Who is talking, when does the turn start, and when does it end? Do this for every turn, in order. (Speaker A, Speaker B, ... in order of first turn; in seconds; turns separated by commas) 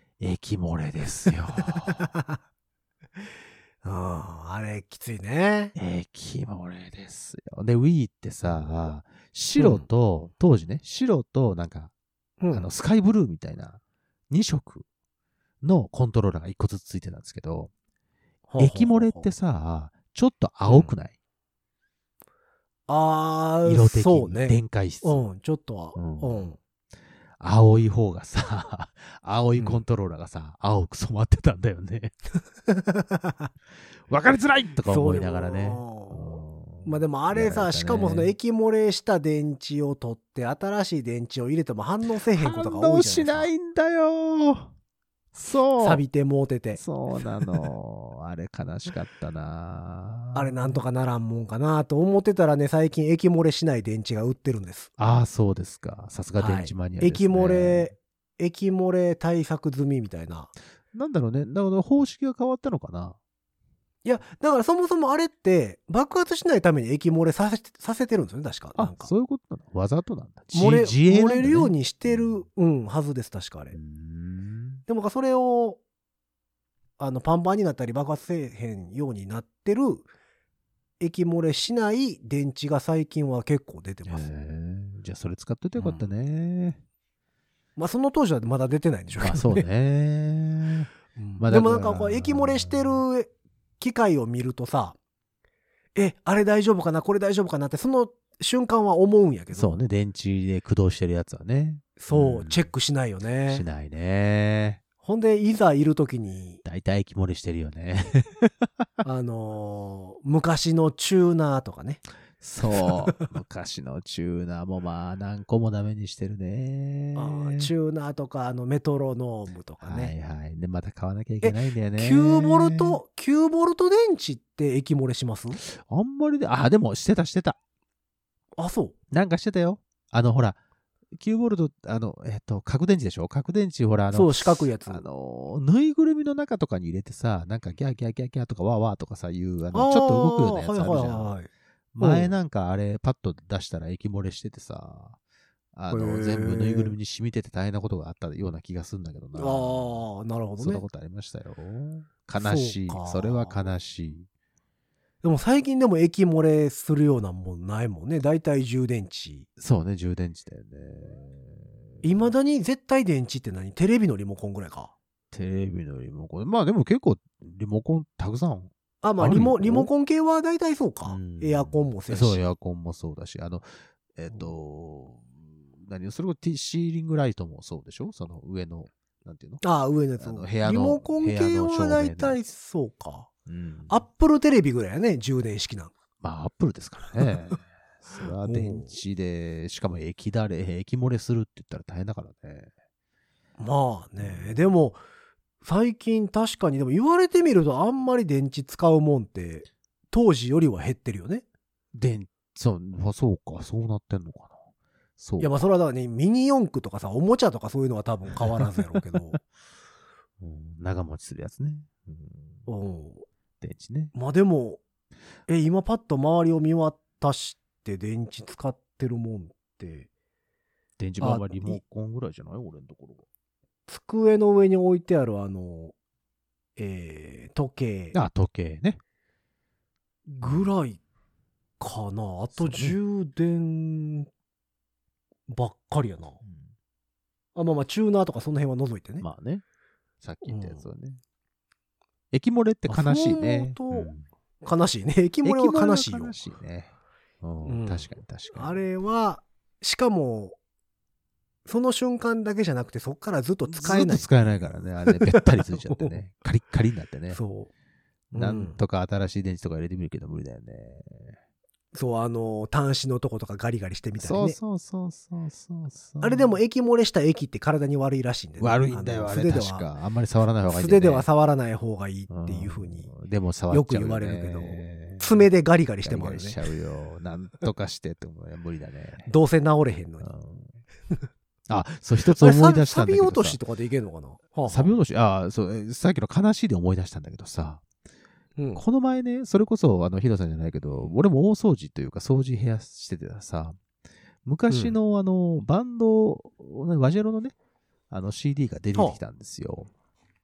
Speaker A: 0.2-2.1, Speaker B: 1.7-2.4, Speaker B: 3.8-5.7, Speaker A: 5.8-11.9, Speaker B: 9.6-9.8, Speaker B: 12.4-12.7, Speaker A: 12.5-14.8, Speaker A: 15.6-17.7, Speaker B: 18.5-19.3, Speaker A: 18.6-21.1, Speaker B: 20.6-20.9, Speaker B: 22.9-26.6, Speaker A: 23.6-25.2, Speaker A: 25.9-26.5, Speaker A: 27.4-32.1, Speaker B: 29.6-29.8, Speaker B: 32.7-33.5, Speaker A: 34.1-38.3, Speaker B: 34.8-43.5, Speaker A: 42.3-44.7, Speaker A: 45.3-46.0, Speaker B: 45.8-46.8, Speaker A: 46.8-50.8, Speaker B: 50.3-54.9, Speaker A: 55.0-57.9, Speaker B: 56.4-60.5, Speaker A: 60.9-63.2, Speaker B: 64.0-69.1, Speaker A: 68.8-72.4, Speaker B: 70.5-73.8, Speaker A: 73.7-74.8, Speaker B: 74.9-75.8, Speaker B: 77.0-80.0, Speaker B: 81.0-84.3, Speaker A: 84.0-86.8, Speaker B: 85.8-86.0, Speaker B: 87.8-89.6, Speaker A: 89.2-93.0, Speaker B: 91.1-95.0, Speaker B: 95.9-99.8, Speaker A: 99.5-102.7, Speaker B: 102.0-103.6, Speaker A: 103.5-104.8, Speaker B: 105.0-106.6, Speaker A: 106.6-108.9, Speaker B: 109.0-112.0, Speaker A: 112.4-117.7, Speaker B: 112.8-113.3, Speaker B: 117.1-120.1, Speaker A: 119.8-123.0, Speaker B: 121.4-125.6, Speaker A: 125.6-127.6, Speaker B: 128.6-128.9, Speaker A: 129.1-130.6, Speaker A: 131.1-141.3, Speaker B: 134.1-135.0, Speaker B: 139.7-141.5, Speaker A: 141.9-145.2, Speaker B: 142.0-142.3, Speaker A: 145.7-150.0, Speaker B: 145.9-146.9, Speaker B: 149.3-150.8, Speaker A: 150.6-154.3, Speaker B: 152.4-153.6, Speaker B: 155.2-159.5, Speaker A: 159.6-162.0, Speaker B: 162.0-164.9, Speaker A: 165.3-169.9, Speaker B: 169.0-172.4, Speaker A: 171.1-179.6, Speaker B: 179.6-183.3, Speaker A: 180.2-182.4, Speaker A: 183.4-184.0, Speaker B: 183.9-185.9, Speaker A: 186.2-192.7, Speaker B: 188.4-188.9, Speaker B: 193.6-195.0, Speaker A: 194.2-194.7, Speaker B: 195.6-201.4, Speaker A: 201.9-204.6, Speaker A: 205.2-205.7, Speaker B: 205.4-209.4, Speaker A: 210.4-212.7, Speaker B: 212.7-213.2, Speaker A: 213.6-214.1, Speaker B: 214.1-214.8, Speaker B: 215.5-220.1, Speaker A: 221.0-223.2, Speaker B: 221.2-221.8, Speaker B: 223.9-225.9, Speaker B: 226.8-228.2, Speaker A: 228.1-229.0, Speaker B: 230.3-231.0, Speaker A: 230.4-230.7, Speaker B: 231.8-234.3, Speaker A: 232.5-233.0, Speaker B: 235.5-236.4, Speaker A: 236.4-236.7, Speaker B: 237.6-239.2, Speaker A: 239.2-239.6, Speaker A: 240.2-241.2, Speaker B: 240.4-240.8, Speaker A: 242.3-244.2, Speaker B: 242.9-244.1, Speaker B: 244.6-246.3, Speaker A: 245.4-248.8, Speaker B: 247.6-250.6, Speaker B: 251.7-254.5, Speaker A: 253.7-257.4, Speaker B: 255.1-256.2, Speaker B: 257.3-257.7, Speaker B: 258.3-258.8, Speaker A: 258.3-261.4, Speaker B: 261.9-264.6, Speaker A: 264.2-266.5, Speaker B: 266.2-269.9, Speaker A: 268.6-271.3, Speaker B: 270.7-273.1, Speaker A: 272.3-275.5, Speaker B: 273.7-276.6, Speaker A: 276.0-279.3, Speaker B: 279.2-280.3, Speaker A: 280.2-280.8, Speaker A: 281.7-283.6, Speaker B: 282.3-284.9, Speaker A: 284.6-287.8, Speaker B: 288.6-288.8, Speaker A: 288.8-293.8, Speaker A: 294.4-297.5, Speaker B: 294.7-294.9, Speaker A: 298.1-299.9